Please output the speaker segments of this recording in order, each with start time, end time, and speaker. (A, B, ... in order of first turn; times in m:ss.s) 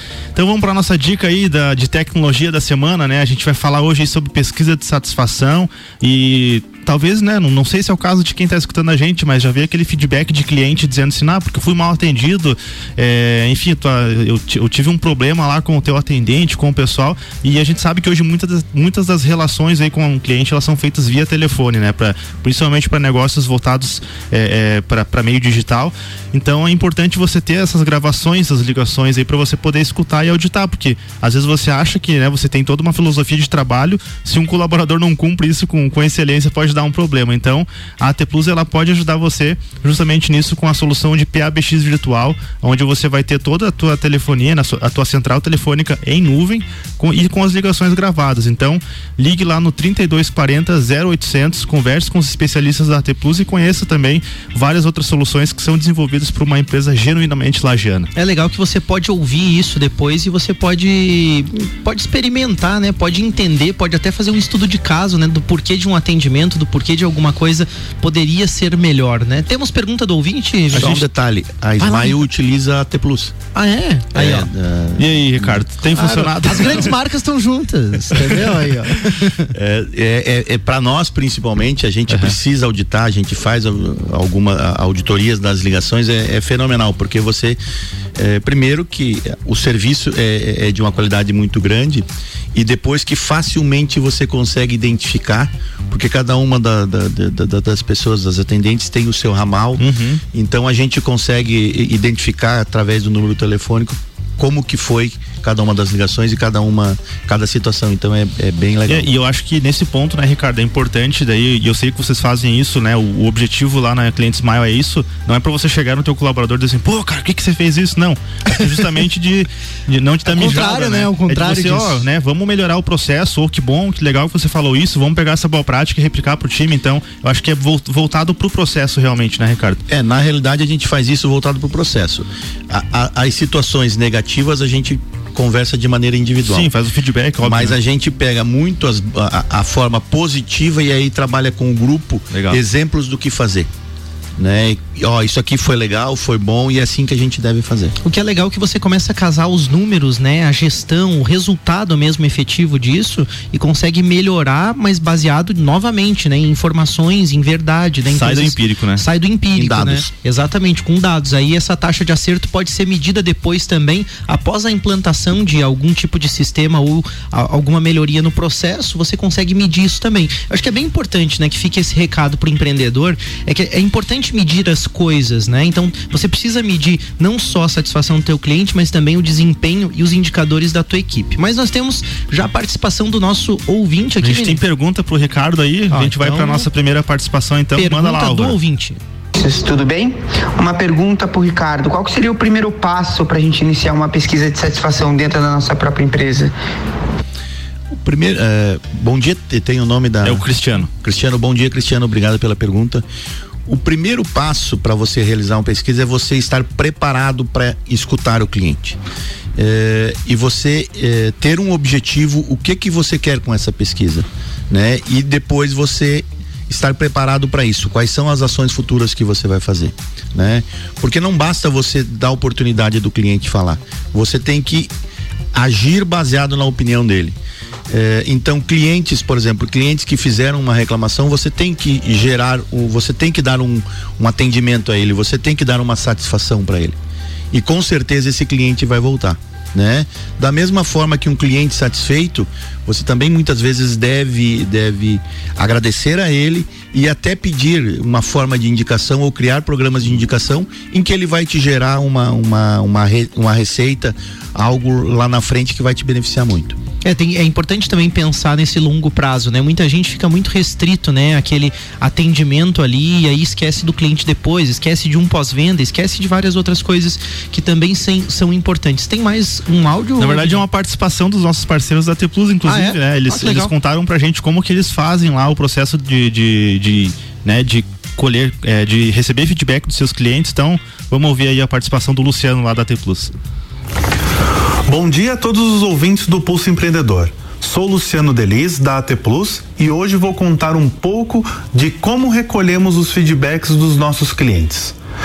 0:00.3-0:58.1 A
0:58.1-1:11.0 B
1:10.7-1:13.3 C
1:11.8-1:12.1 B
1:13.5-1:14.5 B
1:14.1-1:15.6 C
1:15.0-1:17.0 A
1:15.9-1:19.5 B
1:19.5-1:27.6 C
1:22.1-1:22.3 A
1:28.2-1:39.8 C
1:39.8-1:40.2 A
1:40.3-1:49.1 C
1:48.9-2:09.8 A
2:00.3-2:02.0 B
2:09.9-2:16.7 C
2:16.5-2:17.8 A
2:17.4-2:23.7 C
2:22.3-2:22.6 A
2:24.4-2:27.9 C
2:28.0-3:04.6 B
2:38.1-2:39.0 A
2:39.6-2:40.1 C
3:04.2-3:08.6 A
3:05.9-3:06.7 B
3:07.8-3:09.0 B
3:09.4-3:16.5 D
3:17.9-3:23.0 C
3:20.2-3:20.9 A
3:23.6-3:29.0 C
3:29.6-3:44.9 C
3:45.5-3:47.4 C
3:47.9-3:57.0 C
3:57.5-4:16.8 C
4:17.0-4:30.6 B
4:30.2-4:43.3 A
4:32.6-4:33.7 B
4:44.8-4:55.0 E